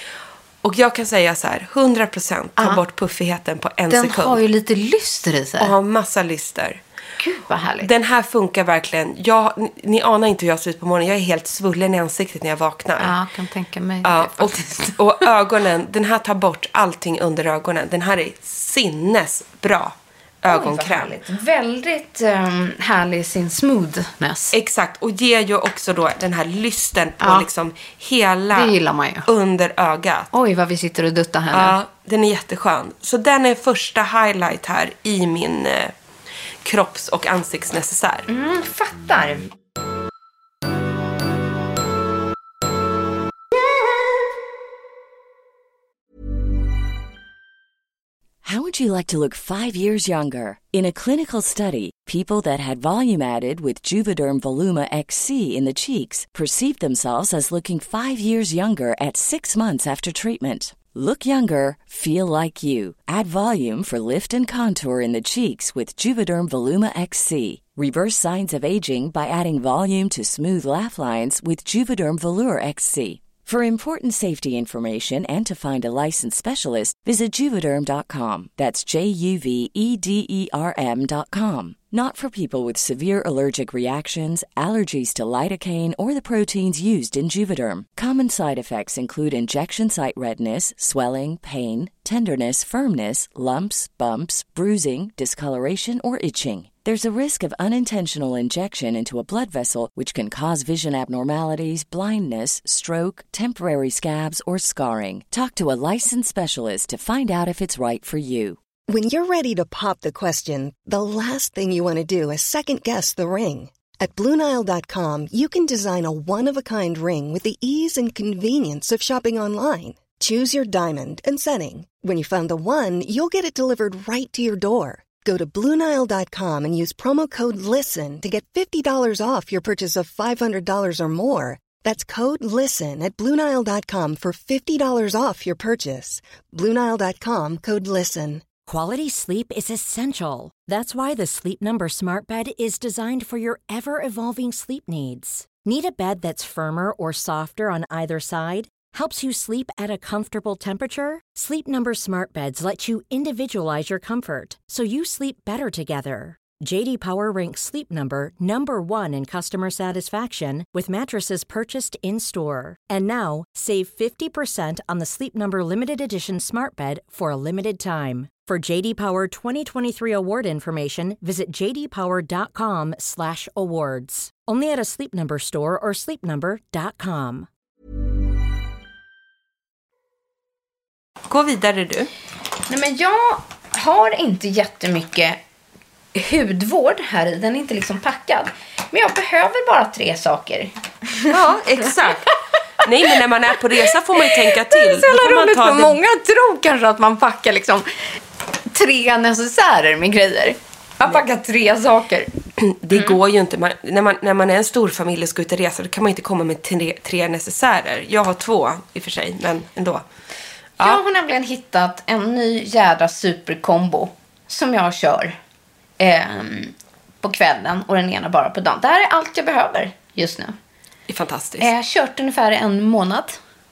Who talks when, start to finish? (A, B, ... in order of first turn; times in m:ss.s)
0:00.6-0:04.4 A
0:03.9-0:05.7 B
0:05.6-0:06.8 A
0:07.2-0:07.9 B
0:07.8-0:13.1 A
0:13.0-0:14.9 B
0:14.0-0:21.1 A
0:20.5-0:24.5 B
0:24.5-0:28.7 A
0:28.5-0:29.2 B
0:29.2-0:30.3 A
0:30.3-0:31.7 B
0:31.5-0:35.9 A
0:36.6-0:38.3 A
0:38.3-0:39.5 B
0:48.4-1:48.6 C
1:48.9-2:18.4 D
2:18.7-2:57.5 E
3:01.3-3:02.1 A
3:02.7-3:05.4 B
3:06.1-3:11.3 B
3:11.3-3:12.2 A
3:12.8-3:16.0 A
3:12.8-3:13.1 B
3:14.2-3:17.9 B
3:18.7-3:22.3 B
3:22.6-3:30.0 A
3:30.8-3:35.4 B
3:36.0-3:40.5 B
3:41.1-3:41.7 A
3:41.6-3:43.4 B